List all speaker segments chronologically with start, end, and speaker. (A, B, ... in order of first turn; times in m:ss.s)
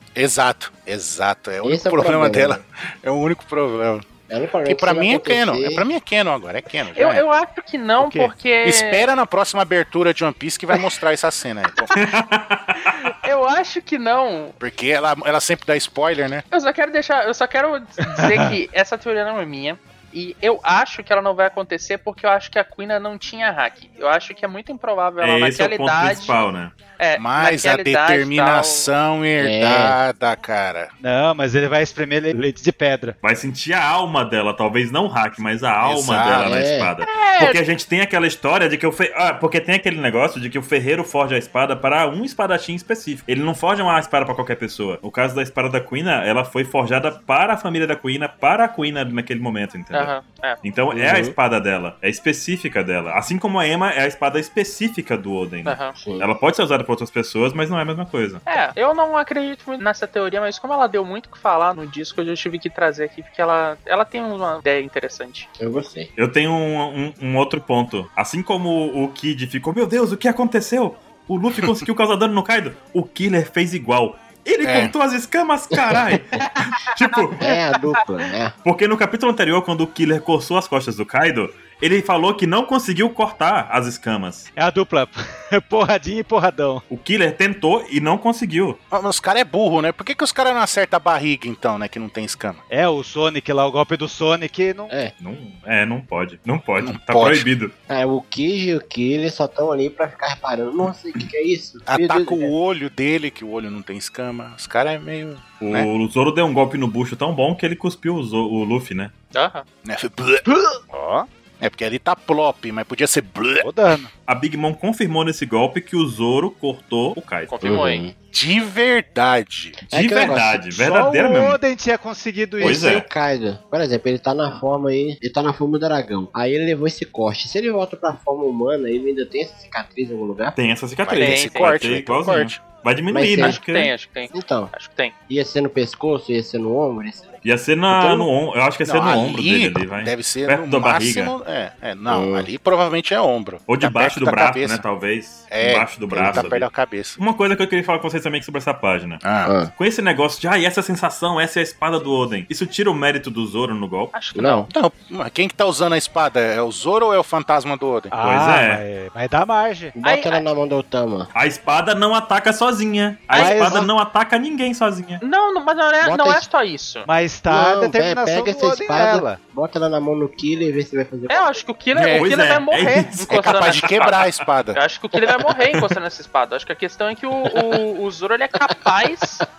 0:00.2-0:04.0 A
0:01.6-0:02.6 B
0:04.3-0:05.8 B
0:04.6-0:07.2 A
0:06.9-0:09.1 C
0:08.0-0:08.3 D
0:08.6-0:11.9 A
0:11.9-0:13.1 E
0:12.8-0:14.6 C
0:14.6-0:16.4 A
0:16.5-0:26.4 C
0:18.1-0:18.5 D
0:25.2-0:26.8 E
0:27.0-0:28.9 C
0:27.2-0:30.9 A
0:29.4-0:30.0 B
0:31.0-0:33.2 D
0:33.2-0:58.4 E
0:35.8-0:36.6 A
0:36.4-0:36.9 B
0:37.0-0:37.6 C
0:49.9-0:50.6 C
0:50.9-0:51.3 B
0:55.6-0:56.0 C
0:56.0-0:56.3 B
0:58.5-1:05.5 C
1:05.6-1:06.1 B
1:06.2-1:17.5 E
1:14.6-1:14.9 A
1:15.7-1:16.0 B
1:16.4-1:18.0 C
1:17.4-1:18.5 B
1:18.6-1:24.5 E
1:24.6-1:26.8 D
1:26.9-1:28.8 E
1:28.9-1:32.6 A
1:32.7-1:34.9 D
1:35.2-1:37.7 E
1:36.8-1:37.5 A
1:37.9-1:42.5 B
1:41.9-1:45.9 A
1:45.6-1:49.1 E
1:49.3-1:49.6 C
1:49.8-1:50.5 A
1:50.9-1:51.3 D
1:51.6-1:53.7 A
1:53.6-1:54.1 D
1:54.3-1:57.7 E
1:57.5-1:58.1 C
1:57.6-1:58.1 B
1:58.3-1:59.8 A
1:59.9-2:01.6 E
1:59.9-2:00.6 B
2:00.7-2:03.0 D
2:02.6-2:10.6 B
2:02.6-2:03.0 E
2:10.6-2:13.9 E
2:11.0-2:12.6 A
2:11.2-2:12.0 C
2:13.1-2:13.6 B
2:13.4-2:15.1 C
2:14.3-2:14.7 B
2:15.3-2:17.4 B
2:17.4-2:21.3 E
2:17.9-2:18.2 B
2:18.8-2:24.8 A
2:22.1-2:22.5 B
2:23.7-2:34.1 E
2:25.5-2:27.2 A
2:26.1-2:26.5 B
2:29.2-2:29.5 A
2:29.4-2:29.7 B
2:34.1-2:34.7 C
2:34.3-2:34.7 B
2:34.7-2:38.1 A
2:38.1-2:39.9 D
2:38.2-2:38.8 E
2:40.0-2:41.3 B
2:40.0-2:40.4 C
2:41.3-2:45.2 E
2:43.3-2:43.9 C
2:43.3-2:43.9 D
2:45.2-2:47.1 C
2:46.0-2:46.5 B
2:47.0-2:49.4 D
2:47.5-2:51.5 B
2:51.3-2:54.2 C
2:51.9-2:52.3 A
2:52.1-2:54.3 E
2:53.3-2:54.8 A
2:54.7-2:59.4 C